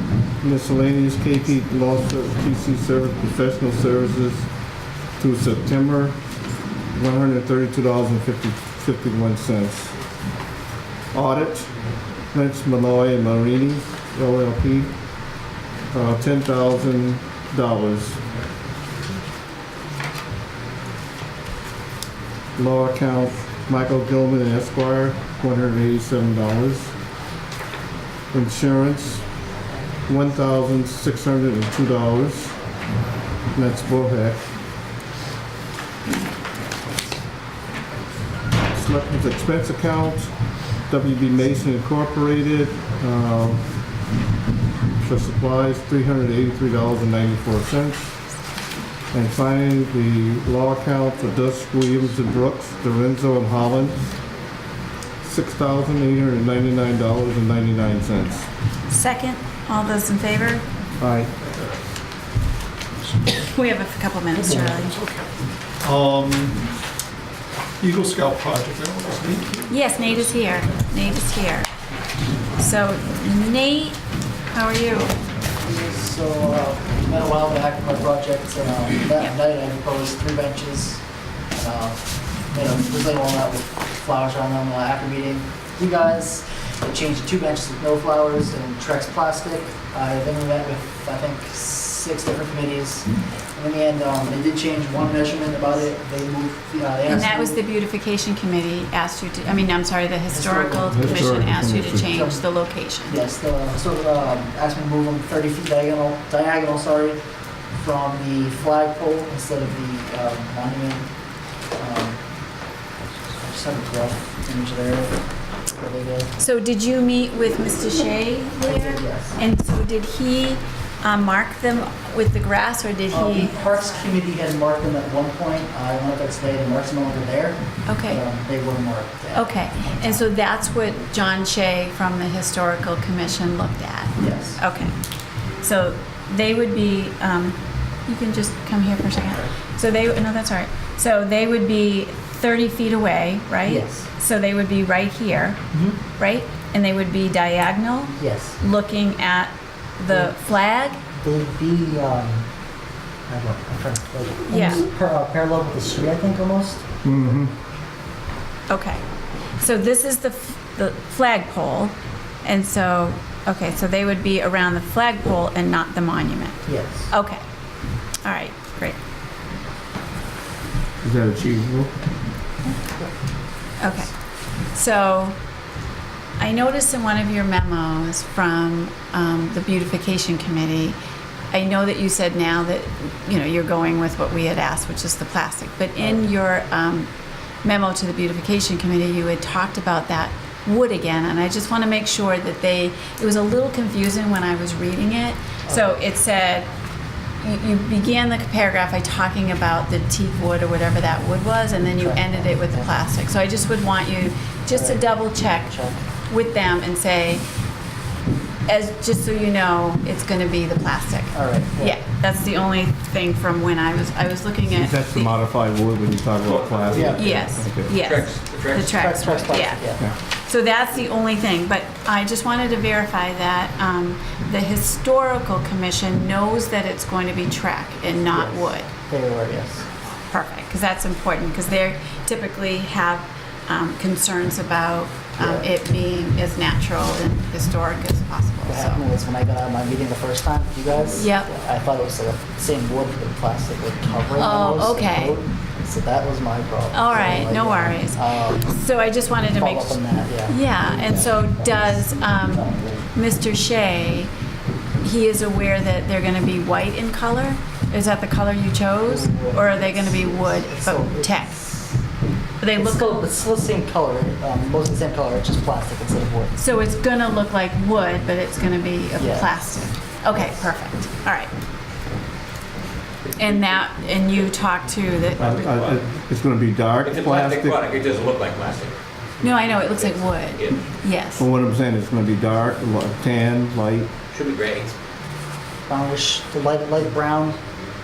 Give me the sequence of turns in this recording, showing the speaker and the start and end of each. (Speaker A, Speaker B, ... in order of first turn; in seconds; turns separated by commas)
Speaker A: 0.4-4.5, Speaker A: 5.2-6.2, Speaker A: 6.9-9.9, Speaker A: 11.1-11.7, Speaker A: 12.3-14.9, Speaker A: 15.9-18.2, Speaker A: 22.6-26.9, Speaker A: 28.3-29.2, Speaker A: 30.1-32.5, Speaker A: 33.5-34.4, Speaker A: 38.7-43.6, Speaker A: 45.0-48.1, Speaker A: 49.1-54.0, Speaker A: 55.2-58.5, Speaker B: 58.9-60.6, Speaker A: 61.0-61.3, Speaker C: 61.4-61.8, Speaker B: 63.3-64.9, Speaker C: 64.3-65.3, Speaker C: 65.8-66.5, Speaker C: 67.8-70.4, Speaker B: 69.7-71.7, Speaker B: 72.6-74.0, Speaker B: 74.5-75.2, Speaker D: 75.6-81.0, Speaker D: 81.5-97.6, Speaker B: 97.1-103.1, Speaker D: 100.3-102.4, Speaker A: 100.9-102.1, Speaker D: 103.1-107.2, Speaker D: 107.8-111.1, Speaker D: 111.8-112.2, Speaker D: 113.4-115.2, Speaker D: 115.7-116.3, Speaker B: 116.4-124.0, Speaker D: 118.6-119.4, Speaker D: 123.1-130.3, Speaker B: 127.9-128.2, Speaker B: 129.3-134.9, Speaker D: 134.2-134.6, Speaker B: 135.6-145.6, Speaker D: 143.6-144.1, Speaker D: 145.7-146.0, Speaker B: 146.2-151.0, Speaker D: 148.2-148.6, Speaker D: 150.1-150.3, Speaker D: 151.1-152.5, Speaker D: 153.3-156.8, Speaker B: 154.5-154.8, Speaker A: 157.0-157.5, Speaker B: 158.7-159.0, Speaker B: 159.6-167.4, Speaker D: 166.7-167.1, Speaker B: 168.2-168.9, Speaker A: 171.0-171.9, Speaker D: 172.8-173.1, Speaker B: 173.8-174.1, Speaker B: 174.7-175.3, Speaker B: 176.4-180.9, Speaker B: 181.5-187.1, Speaker B: 187.6-196.7, Speaker D: 195.7-195.9, Speaker B: 197.4-205.7, Speaker D: 202.0-202.9, Speaker D: 204.7-206.0, Speaker B: 206.3-207.4, Speaker B: 208.7-215.3, Speaker D: 211.3-212.0, Speaker A: 214.7-217.9, Speaker E: 216.4-219.1, Speaker D: 216.9-217.2, Speaker B: 217.2-219.8, Speaker D: 218.9-220.0, Speaker B: 220.5-228.9, Speaker D: 228.3-229.8, Speaker B: 230.3-239.0, Speaker D: 235.4-235.7, Speaker D: 238.7-248.7, Speaker B: 241.1-241.5, Speaker B: 244.3-245.4, Speaker B: 246.9-254.3, Speaker D: 249.5-252.1, Speaker B: 255.0-261.6, Speaker D: 259.0-261.9, Speaker B: 262.6-263.1, Speaker D: 262.7-266.5, Speaker B: 266.6-271.5, Speaker D: 269.2-269.6, Speaker E: 273.2-273.8, Speaker B: 273.4-275.5, Speaker A: 275.4-277.8, Speaker E: 275.4-276.0, Speaker E: 277.0-278.9, Speaker B: 279.4-281.4, Speaker E: 279.5-280.9, Speaker A: 281.4-284.1, Speaker E: 284.3-284.9, Speaker D: 285.9-287.6